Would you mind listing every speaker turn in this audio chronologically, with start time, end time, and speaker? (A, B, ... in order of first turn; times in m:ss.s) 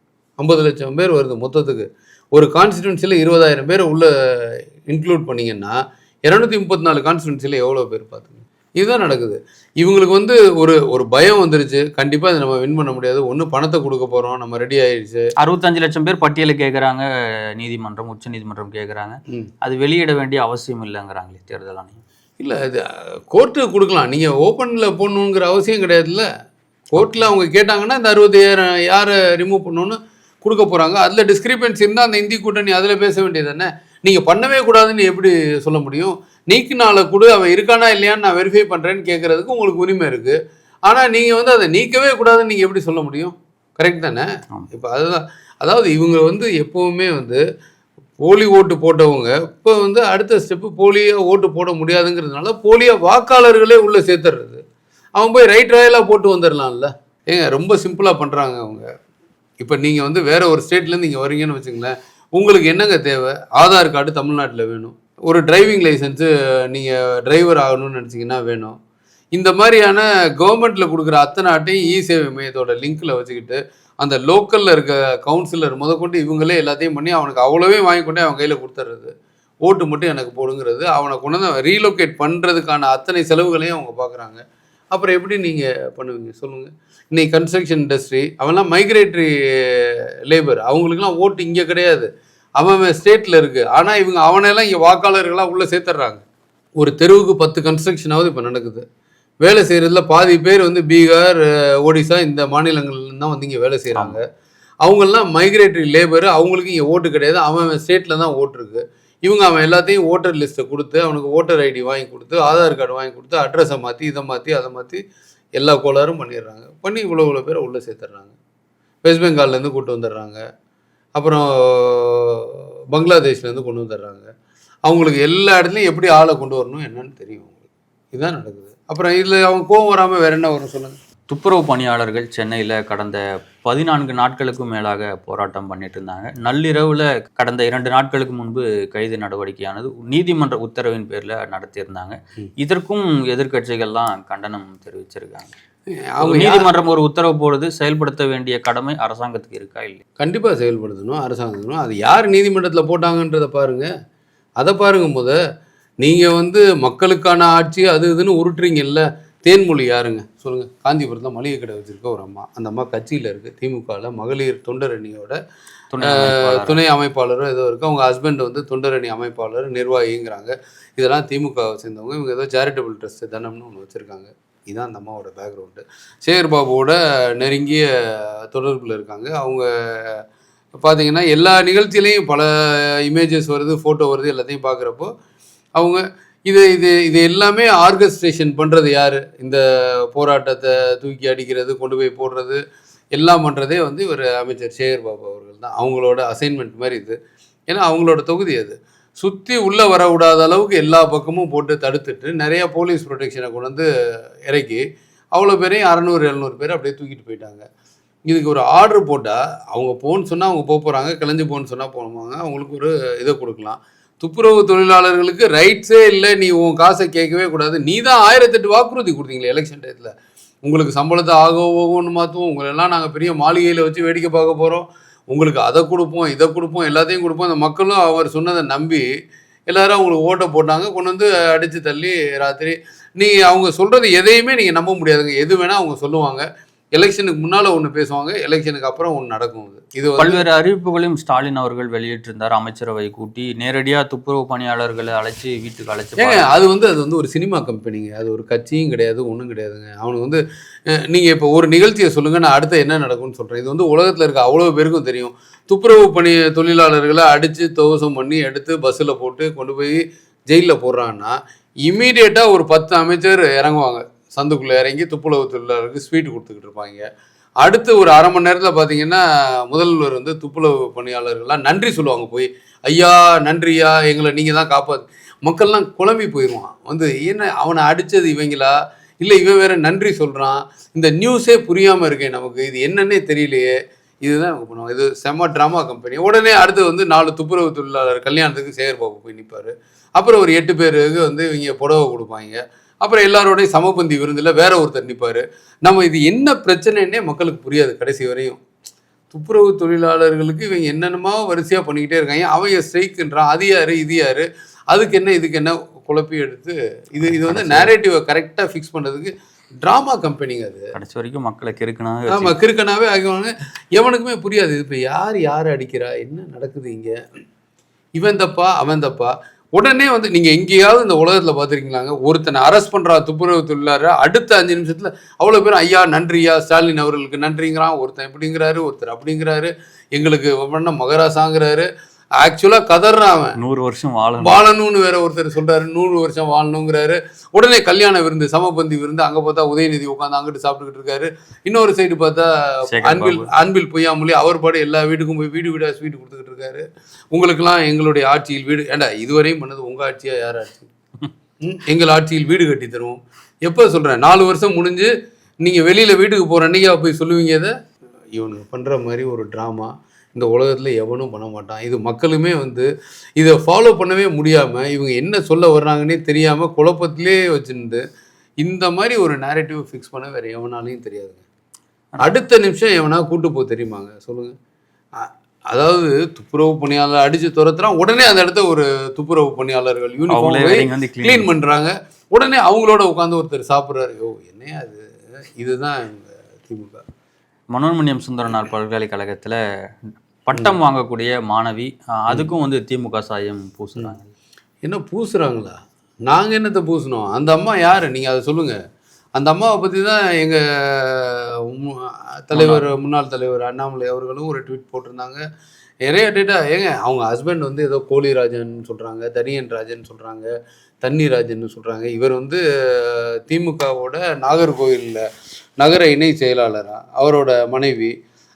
0:00.4-0:05.8 A
0:06.3-0:15.3 A
0:15.4-0:22.0 B
0:22.4-0:26.3 A
0:26.9-0:47.4 A
0:27.0-0:27.3 B
0:48.2-0:54.6 A
0:55.2-0:58.9 A
0:59.6-1:08.8 A
1:09.4-1:19.1 A
1:19.7-1:24.4 A
1:24.9-1:36.2 A
1:36.8-1:38.8 A
1:39.4-1:44.2 A
1:44.8-1:55.0 A
1:55.6-1:58.3 A
1:59.0-2:00.4 A
2:01.2-2:04.3 A
2:04.9-2:07.5 A
2:08.1-2:11.0 A
2:11.3-2:25.5 B
2:26.2-2:26.7 A
2:26.2-2:30.0 B
2:30.2-2:33.9 A
2:34.6-2:35.4 A
2:36.0-2:45.4 A
2:45.9-2:46.8 B
2:46.0-3:00.2 A
3:00.8-3:05.1 A
3:05.8-3:12.6 A
3:13.2-3:17.2 A
3:17.7-3:23.9 A
3:24.5-3:24.8 A
3:25.4-3:27.7 A
3:28.3-3:40.1 A
3:40.7-3:49.1 A
3:49.7-3:56.4 A
3:57.0-4:00.4 A
4:00.2-4:06.5 B
4:06.2-4:10.4 A
4:10.9-4:27.1 A
4:27.6-4:43.7 A
4:44.2-4:58.6 A
4:59.3-5:09.3 A
5:07.2-5:07.9 B
5:09.8-5:10.9 A
5:10.9-5:12.6 B
5:12.3-5:17.1 A
5:18.2-5:31.9 A
5:32.4-5:33.6 A
5:33.6-5:34.6 B
5:34.4-5:50.9 A
5:42.9-5:43.5 B
5:51.6-5:55.1 A
5:55.6-5:57.7 A
5:58.4-6:08.0 A
6:08.6-6:11.4 A
6:12.2-6:14.5 A
6:15.2-6:25.0 A
6:20.3-6:21.5 B
6:25.6-6:27.0 A
6:27.7-6:29.6 B
6:30.4-6:34.3 B
6:34.8-6:35.8 A
6:36.3-6:38.8 A
6:39.4-6:45.4 A
6:42.6-6:42.8 B
6:46.1-6:50.5 A
6:51.0-6:55.2 A
6:55.8-6:58.1 A